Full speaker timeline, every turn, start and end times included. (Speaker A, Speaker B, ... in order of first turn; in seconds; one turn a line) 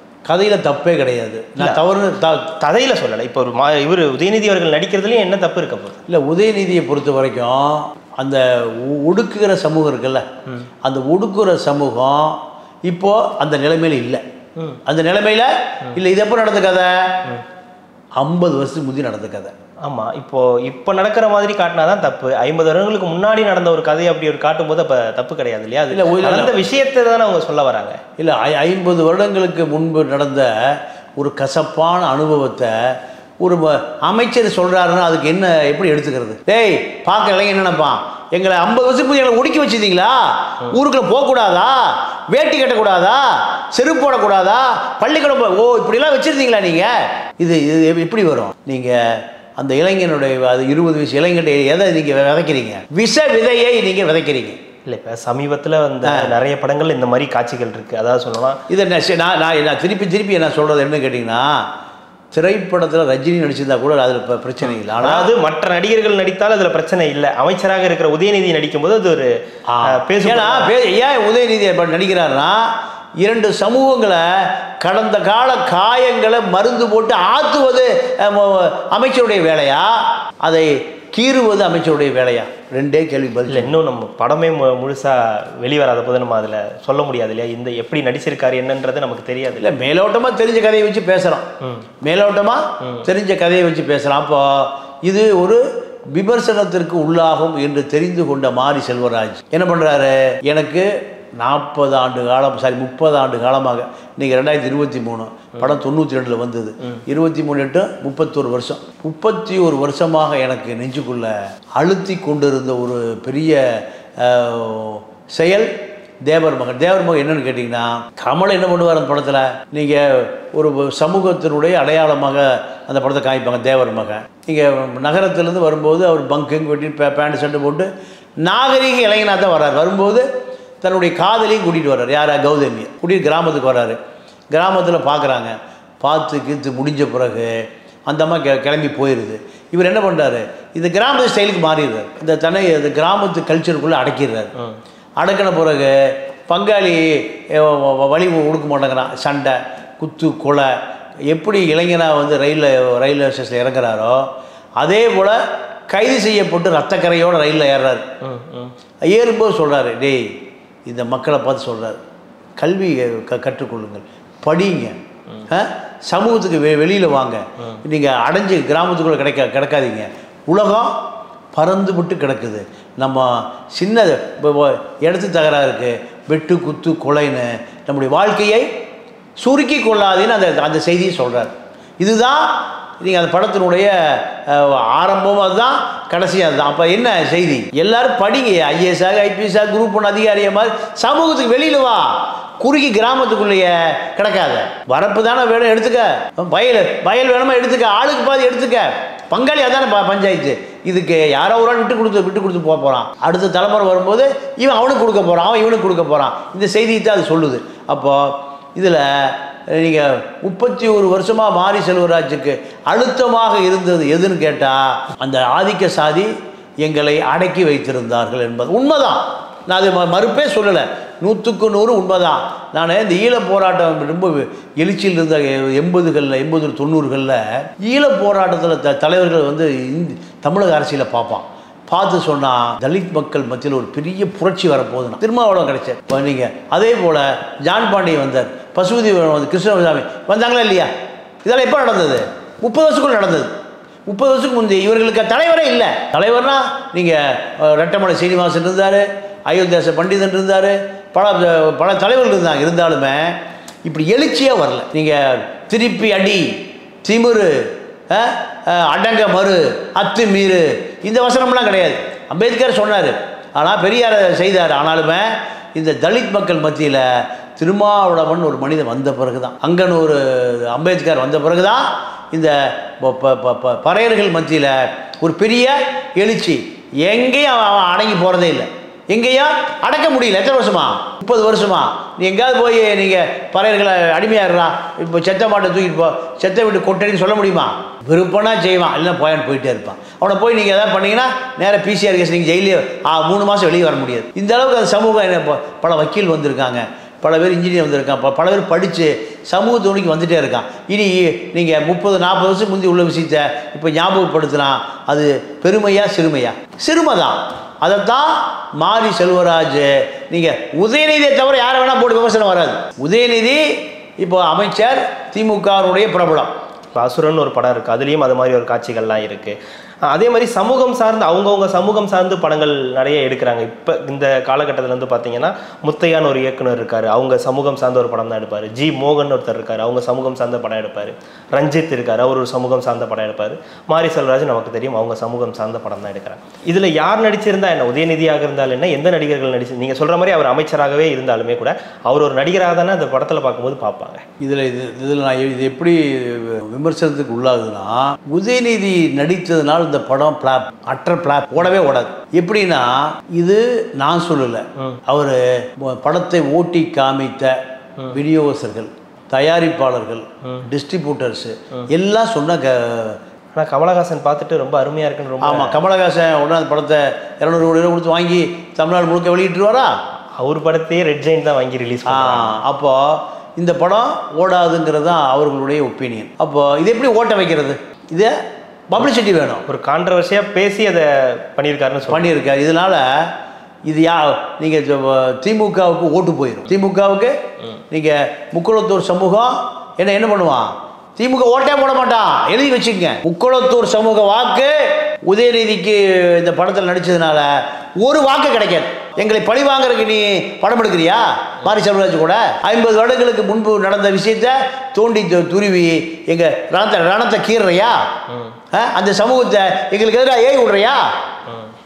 Speaker A: 0.3-2.6
Speaker B: 2.6-6.0
Speaker A: 6.1-10.3
Speaker A: 10.8-14.2
Speaker A: 14.9-17.2
Speaker A: 18.2-19.5
Speaker B: 19.9-28.0
Speaker A: 25.9-26.6
Speaker A: 28.2-54.6
Speaker B: 54.9-58.6
Speaker A: 56.0-56.3
Speaker A: 58.7-61.7
Speaker A: 62.3-65.3
Speaker B: 64.7-69.3
Speaker A: 69.7-83.7
Speaker B: 69.8-70.7
Speaker B: 83.5-89.7
Speaker A: 89.6-91.5
Speaker A: 92.0-115.7
Speaker A: 116.2-127.9
Speaker A: 128.4-130.3
Speaker A: 130.8-134.0
Speaker A: 134.5-144.5
Speaker A: 145.2-150.7
Speaker A: 151.3-158.1
Speaker B: 158.2-158.7
Speaker A: 159.1-160.3
Speaker A: 160.9-162.0
Speaker A: 162.6-165.0
Speaker A: 165.5-170.9
Speaker A: 171.6-178.7
Speaker A: 179.4-216.3
Speaker A: 216.8-240.9
Speaker A: 241.4-243.5
Speaker A: 244.1-316.5
Speaker B: 316.9-344.3
Speaker A: 344.4-363.2
Speaker B: 363.5-365.8
Speaker A: 365.4-369.9
Speaker B: 370.4-372.6
Speaker A: 372.1-378.4
Speaker A: 378.9-379.7
Speaker B: 379.7-382.2
Speaker A: 382.1-383.3
Speaker A: 383.9-387.4
Speaker A: 387.9-408.1
Speaker B: 408.3-408.6
Speaker A: 408.7-411.1